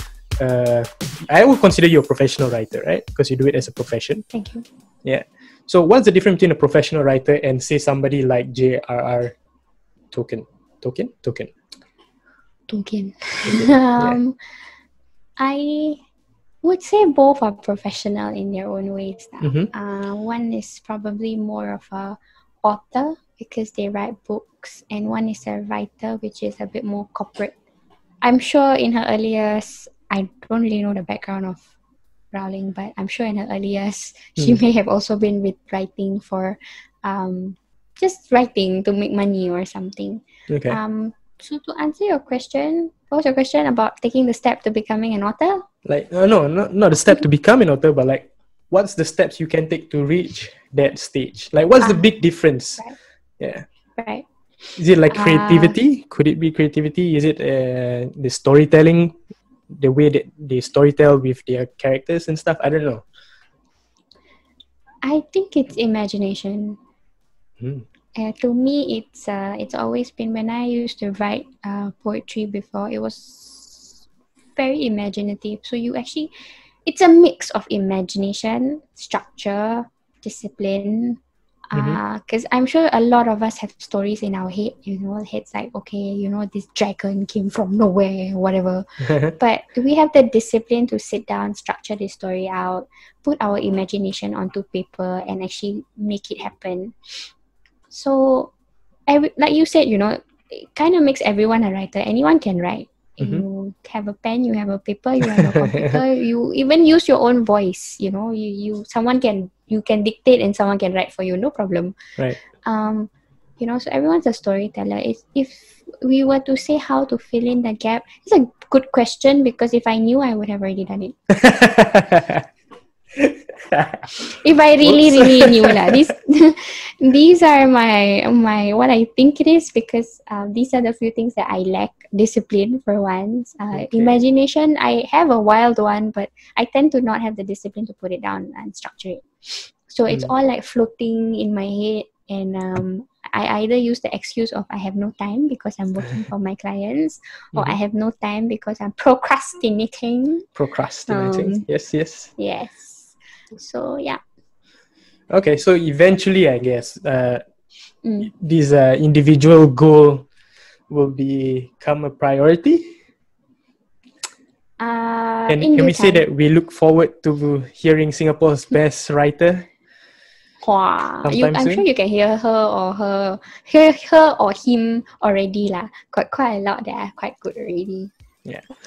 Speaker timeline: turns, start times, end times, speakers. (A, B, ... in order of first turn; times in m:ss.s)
0:00.4-0:04.3 A
0:04.3-0:04.6 B
0:05.0-0:09.3 A
0:10.1-0:11.5 A
0:12.7-0:14.4 B
0:13.5-0:14.2 A
0:15.4-0:16.0 B
0:16.6-0:27.5 B
0:28.2-0:31.6 B
0:32.3-0:45.7 B
0:40.5-0:40.8 A
0:45.8-0:52.8 A
0:51.8-0:52.1 B
0:53.4-0:53.6 A
0:54.0-0:54.2 B
0:54.8-0:59.2 A
0:55.1-0:55.8 B
0:59.7-1:03.0 A
1:05.0-1:06.8 B
1:08.2-1:14.0 B
1:14.6-1:37.0 B
1:37.9-1:38.5 B
1:39.1-2:01.2 B
2:01.4-2:02.4 A
2:03.3-2:04.0 A
2:04.3-2:30.5 B
2:04.8-2:05.8 A
2:13.7-2:14.2 A
2:30.6-2:32.3 A
2:31.1-2:31.6 B
2:32.4-2:34.2 B
2:35.3-2:37.4 A
2:38.0-2:38.3 B
2:38.2-2:40.3 A
2:40.9-2:42.9 A
2:44.8-2:46.2 B
2:45.5-2:49.7 A
2:50.6-2:58.1 B
2:51.2-2:51.8 A